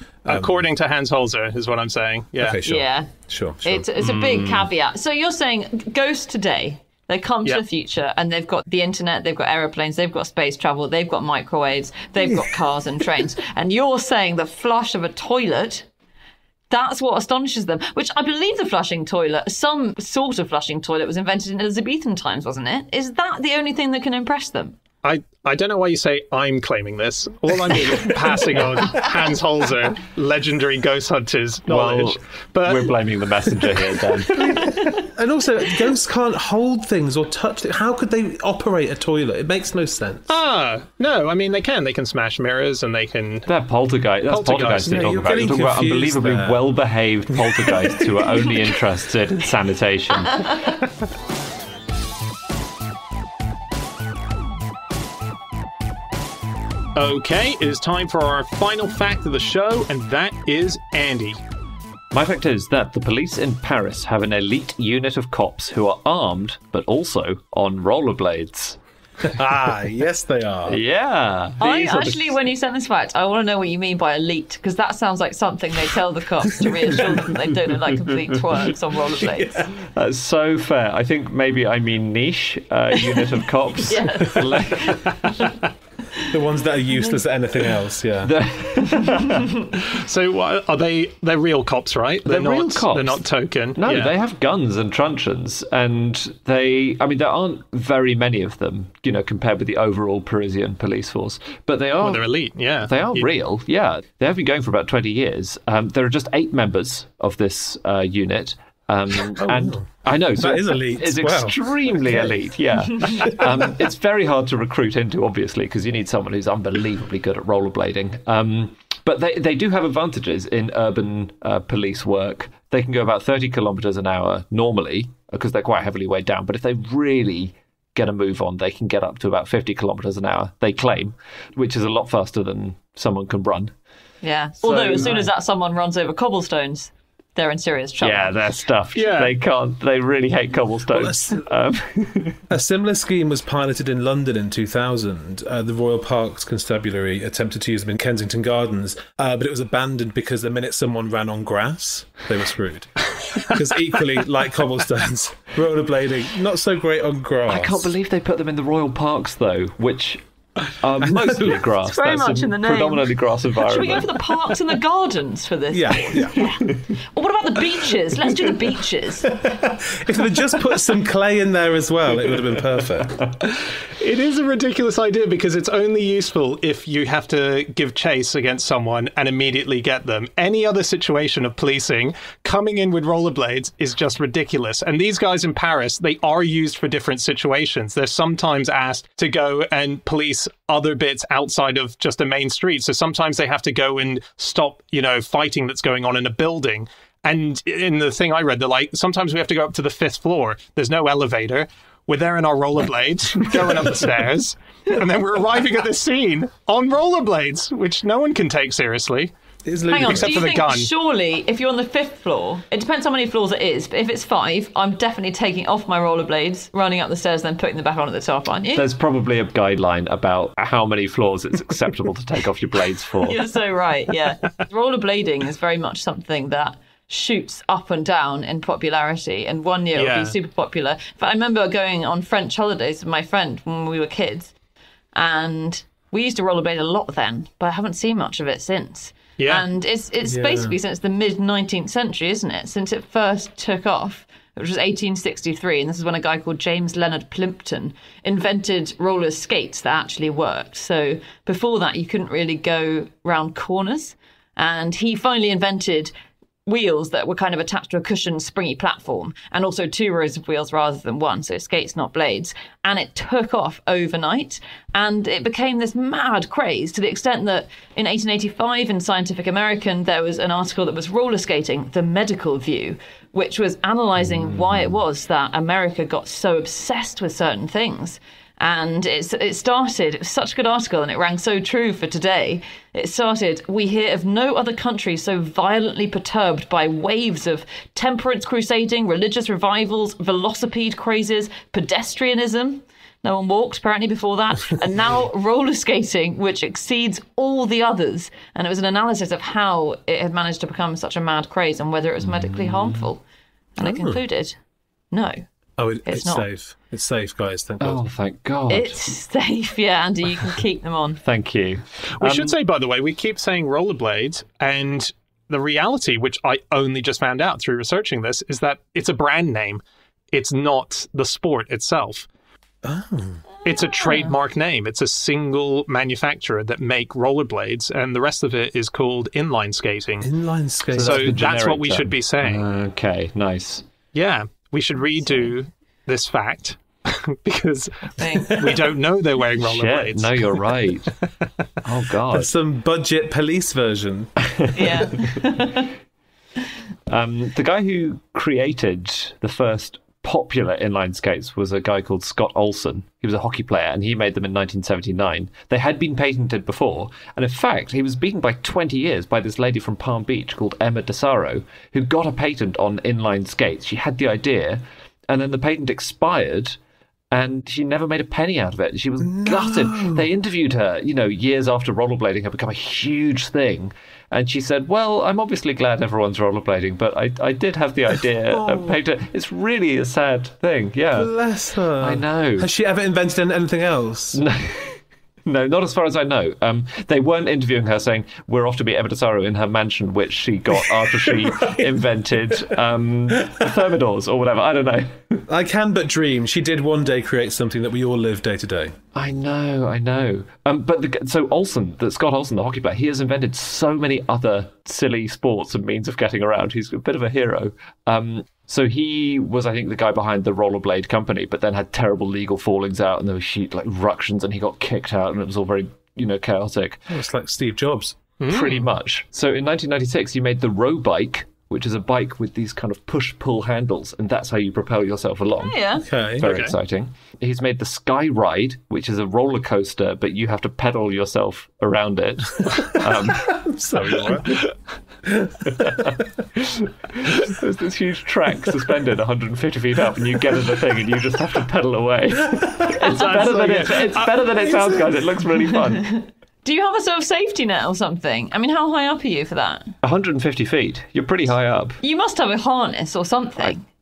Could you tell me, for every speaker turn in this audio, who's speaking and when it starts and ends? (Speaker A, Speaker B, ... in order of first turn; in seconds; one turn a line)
Speaker A: 0.2-0.6
Speaker B: 0.3-2.6
Speaker A: 2.4-4.7
Speaker C: 2.6-3.1
Speaker C: 3.6-15.9
Speaker C: 16.7-24.8
Speaker B: 25.0-32.9
Speaker D: 31.7-34.6
Speaker A: 34.3-40.4
Speaker B: 40.3-43.5
Speaker D: 43.5-50.7
Speaker B: 44.3-45.2
Speaker A: 44.9-46.6
Speaker A: 47.4-47.9
Speaker B: 57.0-61.4
Speaker D: 62.1-68.8
Speaker A: 69.2-70.8
Speaker D: 70.7-72.2
Speaker C: 71.6-79.7
Speaker D: 79.8-85.3
Speaker C: 83.9-85.0
Speaker A: 86.3-88.3
Speaker D: 88.2-89.7
Speaker B: 89.9-94.1
Speaker D: 92.2-93.2
Speaker D: 93.8-102.3
Speaker B: 102.0-103.3
Speaker D: 102.8-133.7
Speaker A: 109.4-112.3
Speaker A: 113.0-113.7
Speaker C: 134.2-138.4
Speaker D: 134.6-135.3
Speaker D: 138.0-142.4
Speaker B: 138.9-139.3
Speaker A: 140.9-141.4
Speaker A: 142.5-157.9
Speaker D: 157.5-160.2
Speaker D: 160.8-164.5
Speaker A: 161.0-161.7
Speaker C: 161.9-169.5
Speaker A: 165.7-166.6
Speaker A: 169.3-173.3
Speaker B: 174.0-209.3
Speaker A: 209.7-210.5
Speaker C: 209.9-218.9
Speaker B: 210.0-210.9
Speaker D: 218.8-223.5
Speaker C: 223.2-234.5
Speaker B: 229.9-230.3
Speaker C: 235.2-256.1
Speaker B: 239.4-239.7
Speaker A: 240.3-240.8
Speaker C: 256.7-303.2
Speaker D: 274.4-274.9
Speaker D: 302.2-303.1
Speaker C: 303.8-304.6
Speaker A: 303.8-304.2
Speaker C: 305.1-305.4
Speaker A: 305.8-308.0
Speaker C: 306.1-306.4
Speaker D: 307.8-309.0
Speaker C: 308.7-311.2
Speaker D: 311.2-312.6
Speaker B: 312.2-322.3
Speaker A: 322.8-323.4
Speaker B: 323.6-330.3
Speaker A: 330.2-331.3
Speaker D: 330.9-333.9
Speaker B: 330.9-332.6
Speaker B: 334.1-340.6
Speaker C: 338.2-338.6
Speaker A: 338.4-338.9
Speaker D: 339.6-341.1
Speaker D: 341.8-342.5
Speaker A: 342.3-344.3
Speaker D: 344.5-345.4
Speaker C: 344.7-345.9
Speaker D: 347.1-366.8
Speaker D: 367.3-381.3
Speaker A: 369.2-370.3
Speaker A: 378.5-379.0
Speaker A: 381.1-384.4
Speaker D: 382.0-382.7
Speaker D: 384.4-395.4
Speaker A: 391.3-391.9
Speaker A: 395.5-399.0
Speaker D: 399.1-417.0
Speaker A: 417.1-418.2
Speaker B: 418.4-418.9
Speaker D: 418.5-425.8
Speaker C: 425.6-426.1
Speaker A: 426.0-426.4
Speaker D: 426.4-433.7
Speaker B: 426.4-426.8
Speaker A: 433.4-434.6
Speaker A: 435.3-436.2
Speaker D: 435.7-446.2
Speaker A: 442.6-443.9
Speaker B: 443.2-444.3
Speaker A: 444.7-445.0
Speaker C: 446.6-449.9
Speaker D: 450.0-452.0
Speaker C: 452.0-453.9